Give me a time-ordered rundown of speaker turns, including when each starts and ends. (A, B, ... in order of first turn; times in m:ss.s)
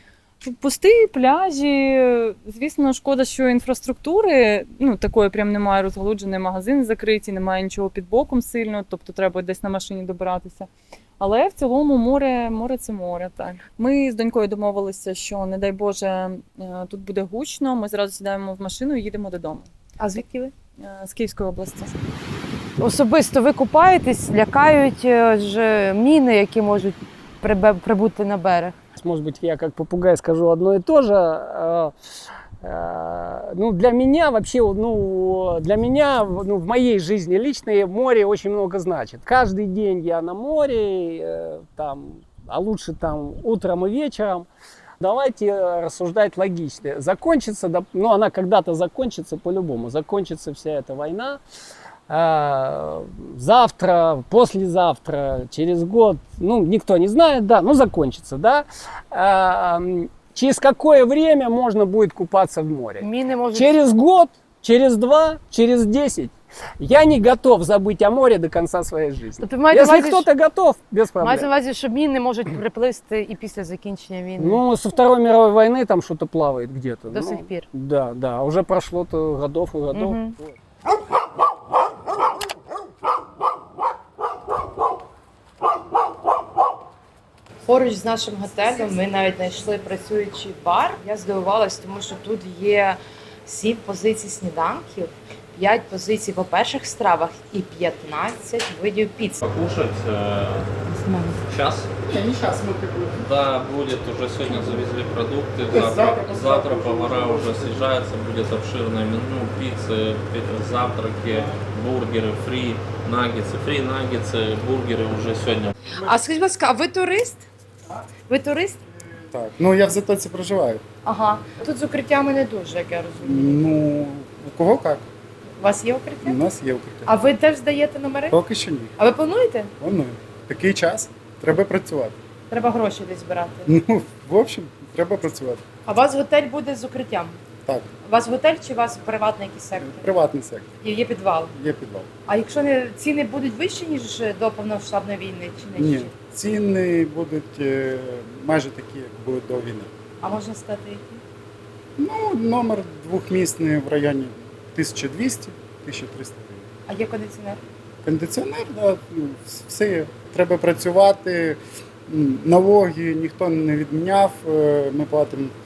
0:00.4-0:19.7 A
0:20.0-0:20.5 B
0:20.8-0:22.0 A
0:22.8-0:28.8 B
0:29.0-0:31.9 C
0:32.6-0:44.5 C
0:45.0-0:51.4 C
0:52.1-1:11.5 C
1:03.0-1:03.8 B
1:09.4-1:10.3 B
1:11.2-1:14.6 B
1:14.4-1:20.6 C
1:17.1-1:17.6 B
1:19.9-1:20.3 B
1:27.7-1:39.4 B
1:39.4-1:40.7 D
1:40.9-1:41.4 B
1:41.5-1:41.9 D
1:42.2-1:43.1 E
1:43.2-1:55.7 D
1:45.8-1:46.6 E
1:55.9-1:57.5 B
1:58.3-1:58.8 B
1:59.3-2:00.8 E
2:01.0-2:03.6 B
2:03.2-2:05.1 E
2:05.6-2:06.4 B
2:06.2-2:07.2 E
2:07.0-2:08.4 B
2:08.3-2:08.9 E
2:09.0-2:09.7 B
2:09.8-2:12.2 E
2:12.5-2:13.7 B
2:13.6-2:15.6 E
2:15.8-2:17.4 B
2:17.6-2:17.9 E
2:18.0-2:20.1 B
2:19.8-2:20.8 E
2:20.8-2:21.5 B
2:21.5-2:22.1 E
2:22.3-2:26.1 B
2:25.8-2:29.9 E
2:30.2-2:31.2 B
2:32.0-2:36.7 E
2:36.9-2:37.6 B
2:38.0-2:45.5 E